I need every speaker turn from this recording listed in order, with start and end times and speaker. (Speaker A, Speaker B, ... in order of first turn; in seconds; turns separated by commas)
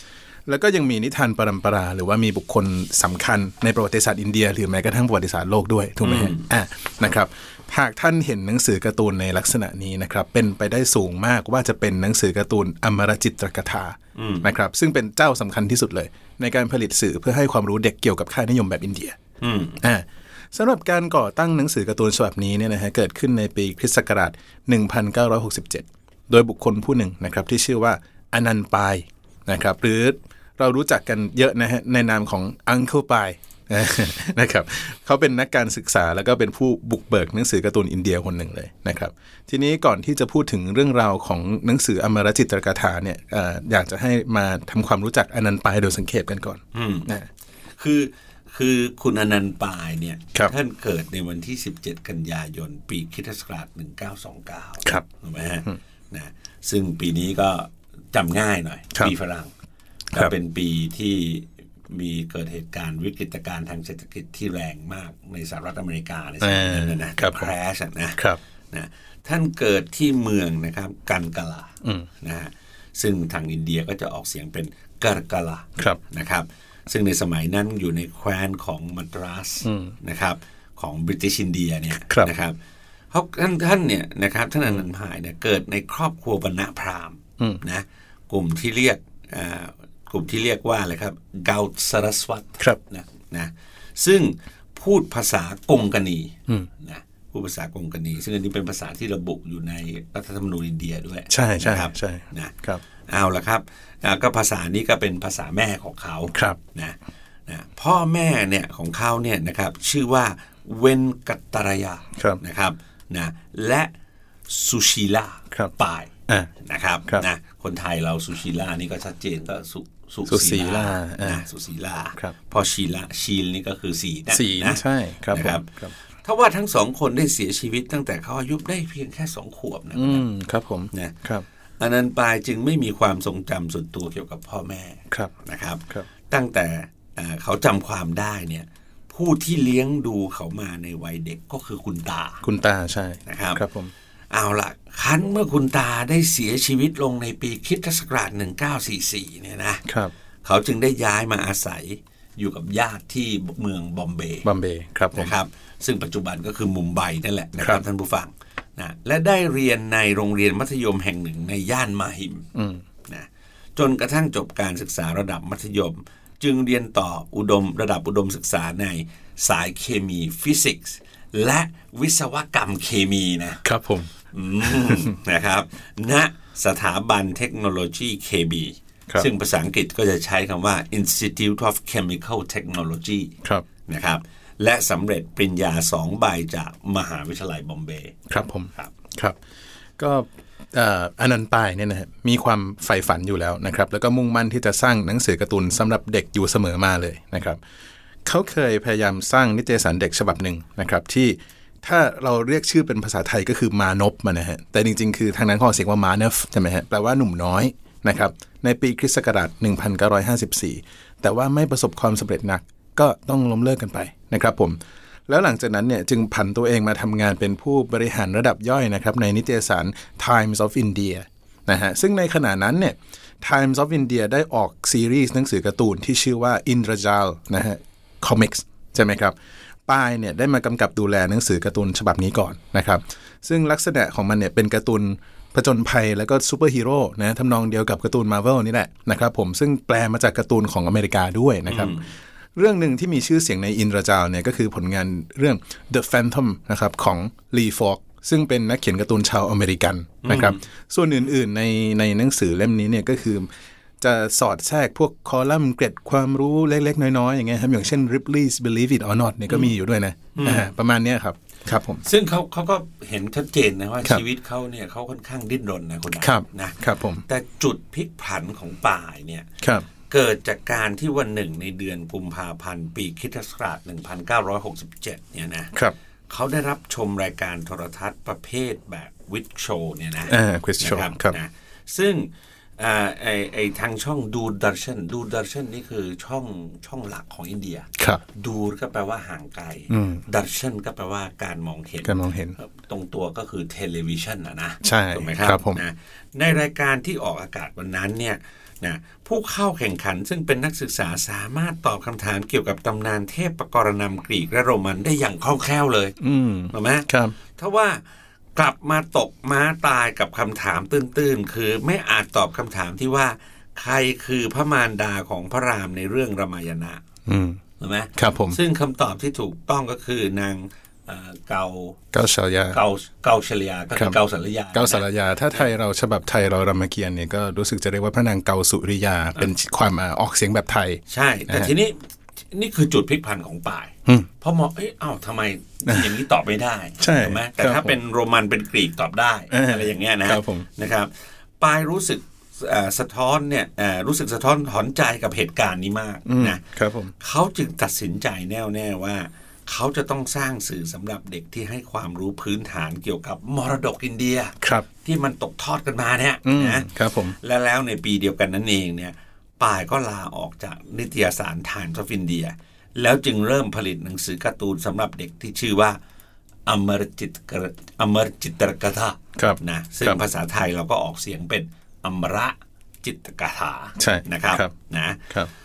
Speaker A: 0.5-19.2, Speaker B: 6.0-6.5, Speaker B: 14.2-14.5, Speaker B: 19.4-19.8, Speaker A: 19.8-47.3, Speaker B: 46.7-47.1, Speaker B: 47.8-59.5, Speaker B: 60.1-68.2, Speaker A: 66.4-67.5, Speaker B: 68.7-82.6, Speaker A: 71.8-72.1, Speaker A: 79.6-79.9, Speaker B: 83.1-102.5, Speaker A: 101.3-102.8, Speaker B: 103.0-113.9, Speaker A: 106.3-106.6, Speaker A: 112.2-112.4, Speaker B: 114.5-125.7, Speaker A: 120.3-121.4, Speaker A: 124.3-125.9, Speaker B: 126.2-130.2, Speaker A: 129.9-131.4, Speaker B: 131.8-142.4, Speaker A: 142.4-143.9, Speaker B: 143.3-143.6, Speaker B: 144.3-149.8, Speaker A: 149.9-150.1, Speaker B: 150.4-154.5, Speaker A: 154.4-155.3, Speaker B: 155.1-162.5, Speaker A: 157.6-157.8, Speaker A: 162.5-162.8, Speaker B: 163.1-173.6, Speaker A: 173.6-174.1, Speaker B: 174.3-183.3, Speaker A: 174.6-175.1, Speaker B: 183.9-188.2, Speaker A: 188.3-189.4, Speaker A: 190.0-197.6, Speaker A: 198.2-229.4, Speaker A: 229.9-242.0, Speaker B: 241.7-242.1, Speaker A: 242.6-253.5, Speaker B: 250.2-250.6, Speaker A: 254.0-262.0, Speaker B: 260.4-260.7, Speaker B: 262.1-269.5, Speaker A: 266.2-267.2, Speaker A: 269.6-269.9, Speaker B: 270.1-275.7, Speaker B: 276.3-306.2, Speaker A: 280.3-281.4, Speaker A: 288.0-288.2, Speaker A: 289.9-290.2, Speaker A: 292.0-292.6, Speaker A: 294.8-295.8, Speaker A: 306.2-307.4, Speaker B: 306.7-308.0, Speaker B: 308.6-317.0, Speaker A: 317.3-317.6, Speaker B: 317.8-322.0, Speaker A: 318.2-318.6, Speaker A: 322.1-322.8, Speaker B: 322.7-325.7, Speaker A: 324.7-331.7, Speaker B: 331.1-332.0, Speaker B: 332.5-346.6, Speaker A: 337.0-338.0, Speaker A: 339.5-340.7, Speaker A: 346.3-347.1, Speaker B: 347.2-356.9, Speaker A: 354.6-354.9, Speaker A: 356.4-357.4, Speaker B: 357.4-366.0, Speaker B: 366.7-375.3, Speaker A: 369.4-370.2, Speaker A: 374.0-374.7